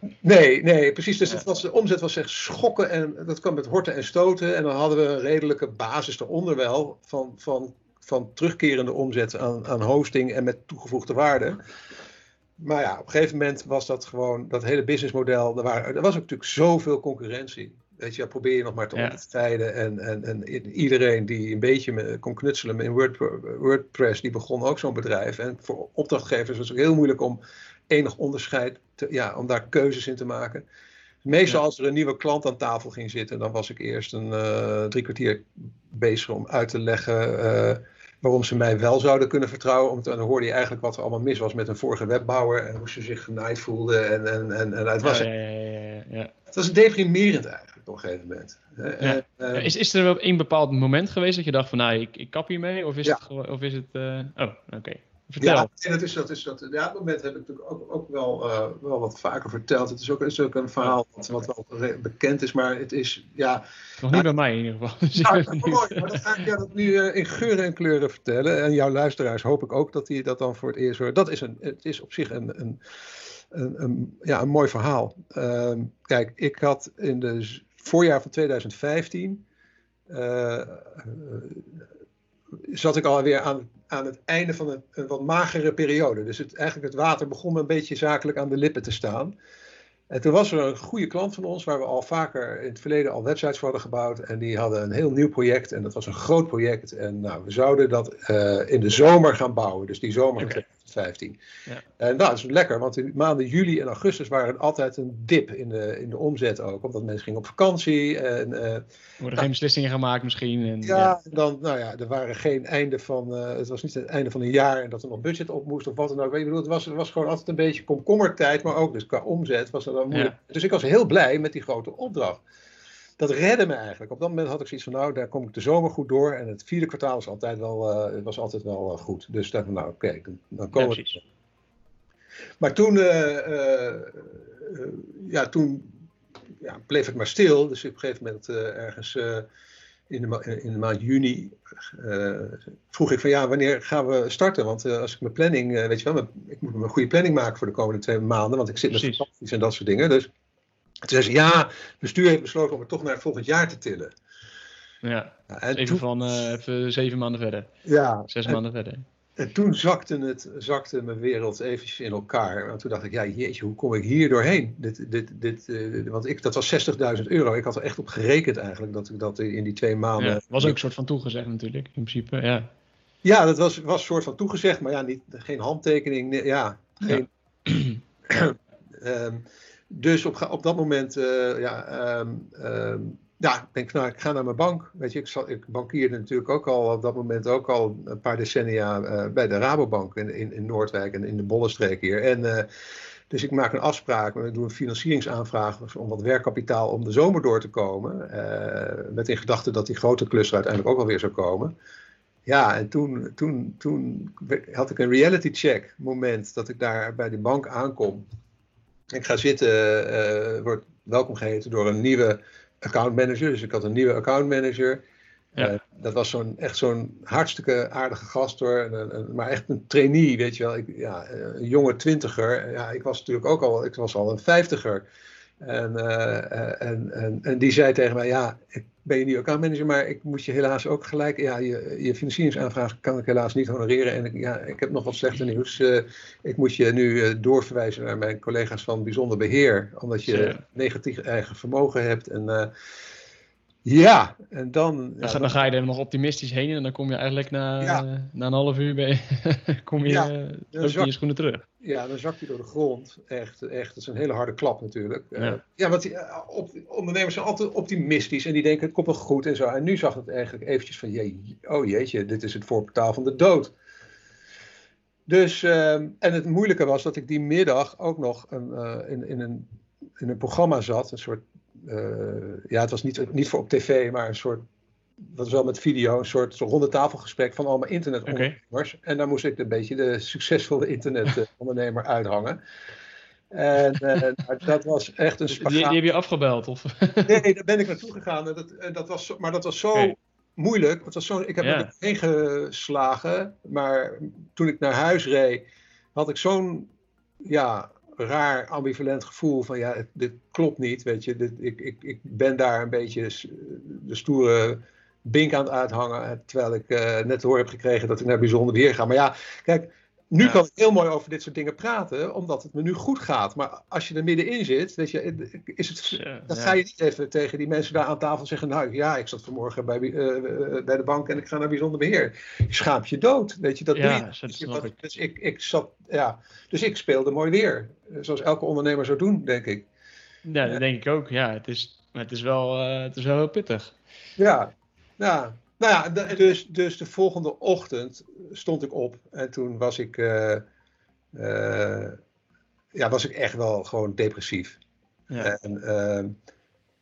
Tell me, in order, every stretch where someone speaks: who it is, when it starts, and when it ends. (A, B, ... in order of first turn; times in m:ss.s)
0:00.2-0:11.6 A
0:12.6-0:30.6 A
0:19.0-0:19.2 B
0:31.2-0:45.3 A
0:45.0-0:46.3 B
0:46.5-0:49.7 A
0:49.0-0:55.7 B
0:55.4-1:04.3 A
1:04.0-1:06.5 B
1:05.2-1:12.8 A
1:13.5-1:19.4 A
1:20.1-1:21.8 A
1:22.7-1:29.3 A
1:30.1-1:41.4 A
1:42.0-1:48.8 A
1:49.2-1:51.2 B
1:50.8-2:02.4 A
2:03.2-2:11.2 A
2:10.8-2:11.2 B
2:12.6-2:16.0 A
2:16.6-2:19.5 A
2:20.1-2:30.3 A
2:28.9-2:29.2 B
2:31.1-2:34.1 A
2:35.0-2:37.7 B
2:35.5-2:36.0 A
2:37.8-2:38.6 A
2:38.3-2:39.0 B
2:39.4-2:50.8 A
2:50.2-2:52.7 B
2:53.2-3:12.7 A
3:13.3-3:21.7 A
3:22.5-3:28.2 A
3:29.1-3:35.0 A
3:35.6-3:45.0 A
3:45.6-4:02.7 A
4:00.3-4:00.6 B
4:03.8-4:05.6 A
4:05.2-4:11.6 B
4:10.1-4:11.1 A
4:11.8-4:23.7 A
4:25.3-4:29.7 A
4:30.2-4:34.6 A
4:35.3-4:42.6 A
4:38.3-4:38.6 B
4:43.5-4:46.0 A
4:45.5-4:47.4 B
4:47.2-4:56.9 A
4:51.6-4:51.9 B
4:57.5-5:29.9 A
5:16.1-5:16.8 B
5:24.0-5:25.0 B
5:30.4-5:34.0 B
5:34.4-5:40.6 A
5:41.4-5:42.2 A
5:43.0-5:44.8 A
5:45.4-5:46.3 A